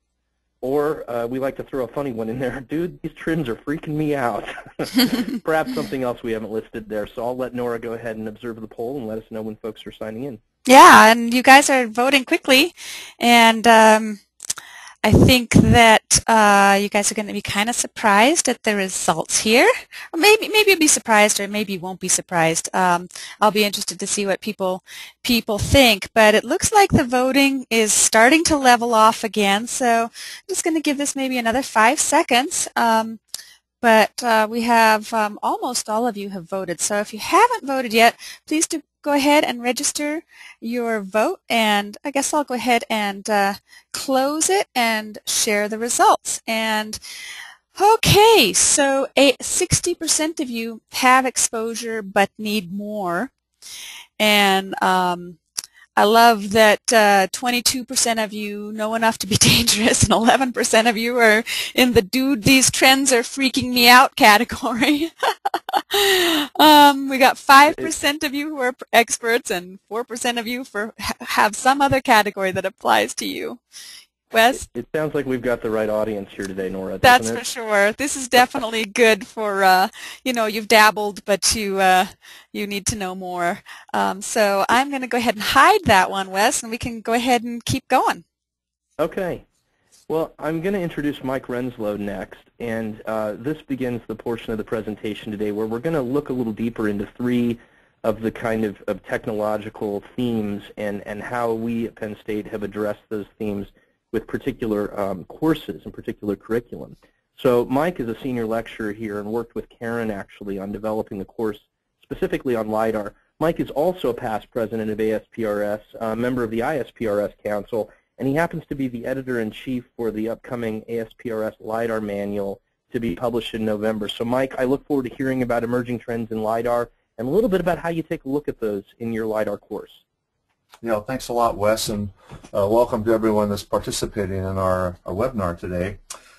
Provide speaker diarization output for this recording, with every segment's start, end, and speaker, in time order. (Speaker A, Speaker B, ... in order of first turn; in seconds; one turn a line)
Speaker A: 0.6-10.4
Speaker B: 10.7-14.2
Speaker B: 15.0-33.2
Speaker B: 33.8-47.0
Speaker B: 47.8-53.3
Speaker B: 54.2-55.4
Speaker B: 56.0-65.1
Speaker B: 65.7-73.6
Speaker A: 67.5-67.9
Speaker B: 74.3-74.6
Speaker A: 74.5-77.4
Speaker B: 77.0-88.2
Speaker A: 89.0-89.4
Speaker A: 90.1-130.0
Speaker C: 130.8-136.0